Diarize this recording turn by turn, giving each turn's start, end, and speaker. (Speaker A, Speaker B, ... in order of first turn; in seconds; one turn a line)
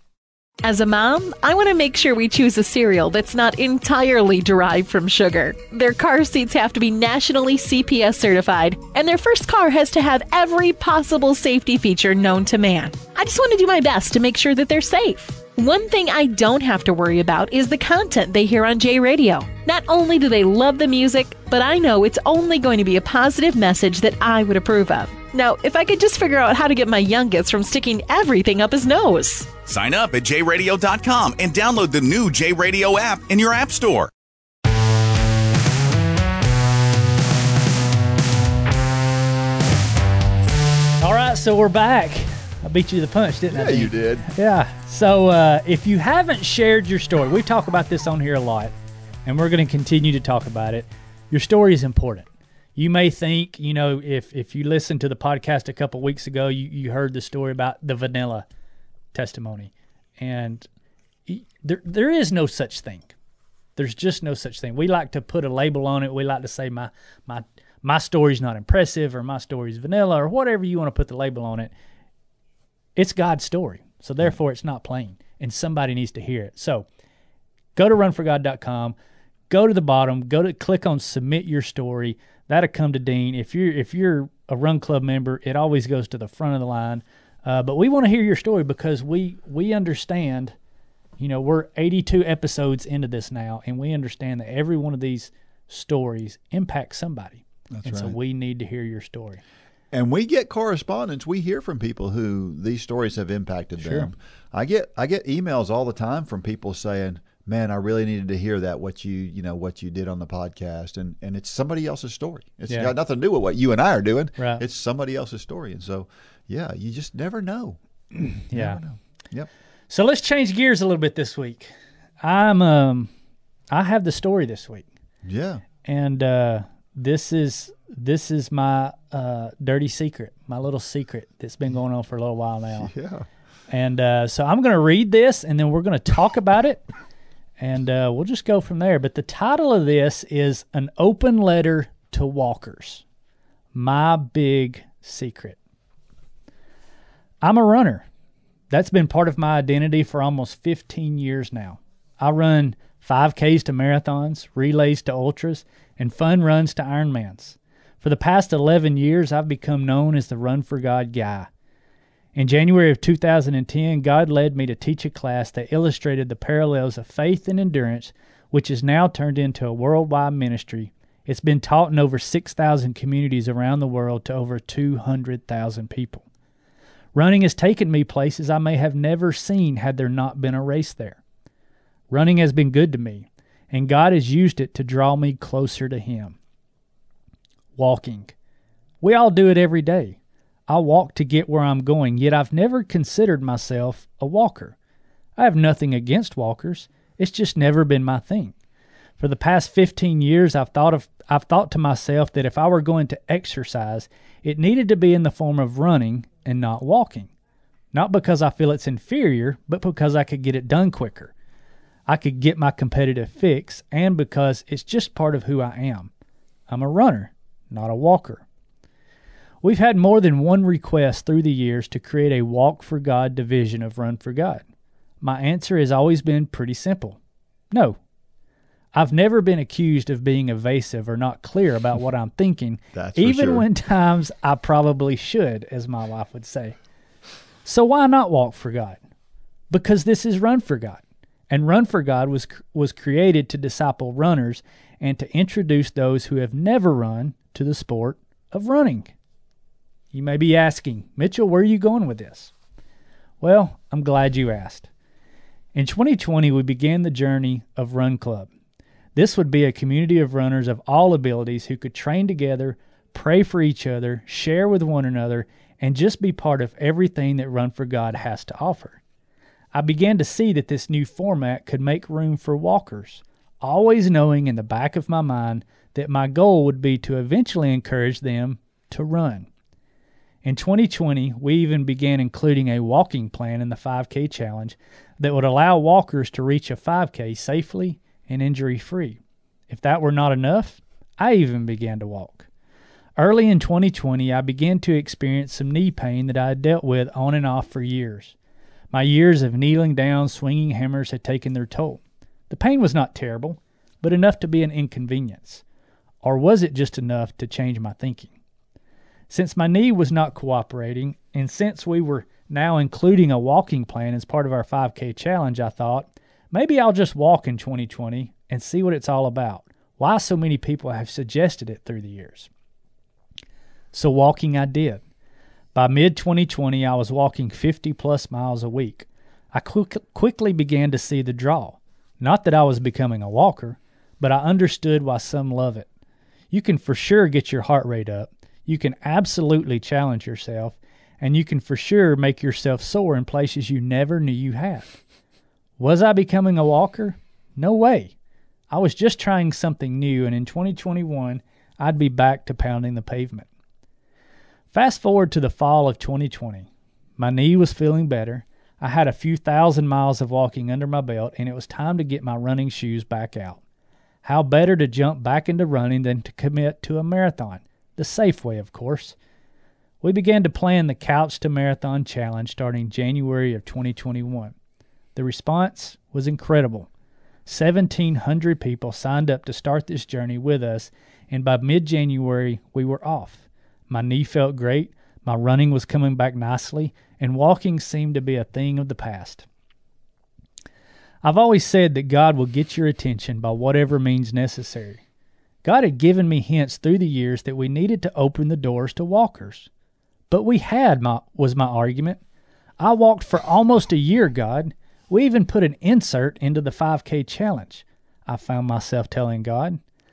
Speaker A: 0.6-29.5
Speaker B: 29.7-34.1
Speaker C: 41.0-48.7
Speaker D: 43.5-44.3
Speaker C: 49.2-58.5
Speaker C: 59.1-60.7
Speaker C: 61.3-63.1
Speaker C: 63.8-71.7
Speaker C: 73.0-76.9
Speaker C: 77.8-79.0
Speaker C: 79.5-90.5
Speaker C: 91.2-99.4
Speaker D: 97.7-98.2
Speaker D: 99.9-117.8
Speaker C: 103.8-104.1
Speaker C: 112.7-113.0
Speaker C: 114.4-114.6
Speaker C: 118.3-118.8
Speaker D: 118.4-119.5
Speaker C: 119.9-121.7
Speaker C: 122.2-123.1
Speaker C: 123.7-124.9
Speaker D: 125.2-125.6
Speaker C: 125.8-132.9
Speaker D: 132.8-133.3
Speaker C: 133.7-136.8
Speaker C: 137.6-143.0
Speaker C: 143.7-145.6
Speaker C: 147.4-148.1
Speaker C: 148.7-161.5
Speaker C: 162.3-176.2
Speaker C: 177.2-181.2
Speaker C: 182.1-186.4
Speaker C: 187.8-188.3
Speaker C: 189.0-190.2
Speaker C: 190.7-194.8
Speaker C: 195.4-198.5
Speaker C: 199.2-207.3
Speaker C: 207.9-211.3
Speaker C: 212.1-216.1
Speaker C: 216.7-218.4
Speaker C: 219.6-224.6
Speaker C: 225.2-227.2
Speaker C: 227.7-228.0
Speaker C: 228.9-236.8
Speaker D: 232.9-233.7
Speaker C: 237.7-239.0
Speaker C: 239.7-249.1
Speaker C: 250.1-252.5
Speaker C: 253.4-254.9
Speaker C: 255.7-258.5
Speaker C: 259.2-269.0
Speaker C: 269.7-279.5
Speaker C: 280.4-289.2
Speaker C: 289.7-292.5
Speaker C: 293.2-298.4
Speaker C: 298.9-305.6
Speaker C: 306.2-308.3
Speaker C: 309.3-322.5
Speaker C: 323.9-325.0
Speaker C: 325.8-335.9
Speaker C: 336.5-344.9
Speaker C: 345.8-348.1
Speaker C: 348.7-353.5
Speaker C: 354.7-363.6
Speaker C: 364.2-369.2
Speaker C: 370.0-374.6
Speaker C: 375.2-376.9
Speaker C: 377.5-389.5
Speaker C: 391.2-395.0
Speaker C: 395.6-399.7
Speaker C: 400.3-402.2
Speaker C: 402.8-409.8